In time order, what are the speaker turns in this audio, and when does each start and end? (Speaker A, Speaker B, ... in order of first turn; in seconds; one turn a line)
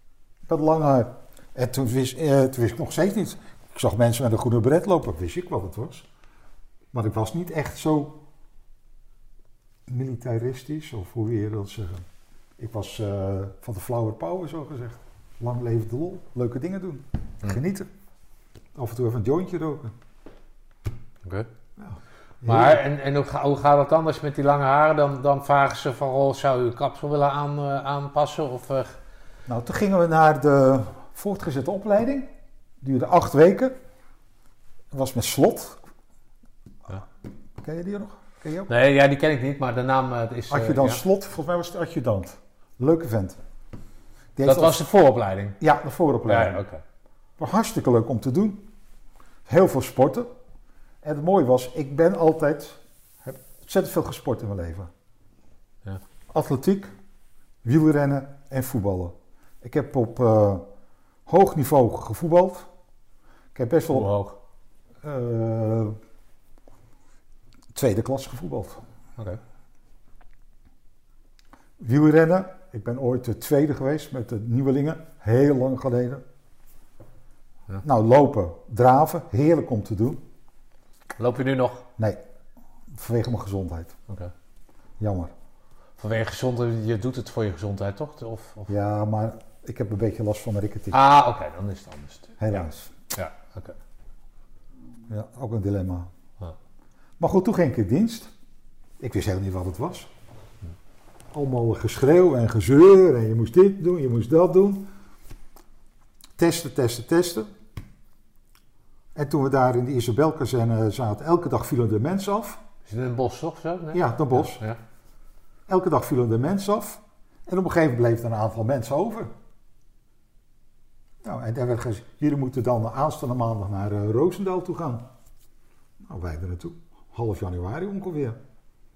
Speaker A: 0.5-6.1
Speaker A: 6.9-8.2
Speaker A: 9.9-12.0
Speaker A: 12.6-17.9
Speaker A: 18.7-19.9
Speaker A: 21.8-22.8
Speaker B: 22.4-29.0
Speaker A: 29.5-32.3
Speaker A: 32.8-33.7
Speaker A: 34.9-35.8
Speaker A: 37.6-38.7
Speaker B: 38.7-41.0
Speaker A: 40.5-43.4
Speaker A: 44.4-44.8
Speaker B: 44.4-45.6
Speaker A: 45.6-46.6
Speaker B: 46.3-46.8
Speaker A: 47.4-48.6
Speaker A: 49.5-50.3
Speaker A: 51.0-54.9
Speaker A: 56.3-56.9
Speaker A: 57.6-60.6
Speaker A: 61.3-62.7
Speaker A: 63.5-64.1
Speaker B: 63.9-64.4
Speaker A: 65.0-66.0
Speaker A: 67.7-68.8
Speaker A: 71.8-76.2
Speaker A: 77.8-80.2
Speaker B: 81.2-81.8
Speaker A: 82.9-84.0
Speaker A: 85.0-85.3
Speaker B: 86.0-88.7
Speaker A: 88.7-91.0
Speaker B: 90.9-93.8
Speaker A: 92.4-92.9
Speaker A: 95.1-96.1
Speaker A: 97.2-98.3
Speaker A: 99.0-100.1
Speaker A: 101.3-104.9
Speaker A: 106.4-107.5
Speaker A: 109.1-112.6
Speaker B: 112.9-114.8
Speaker A: 113.9-114.6
Speaker A: 115.7-119.3
Speaker A: 121.2-125.1
Speaker A: 126.0-128.4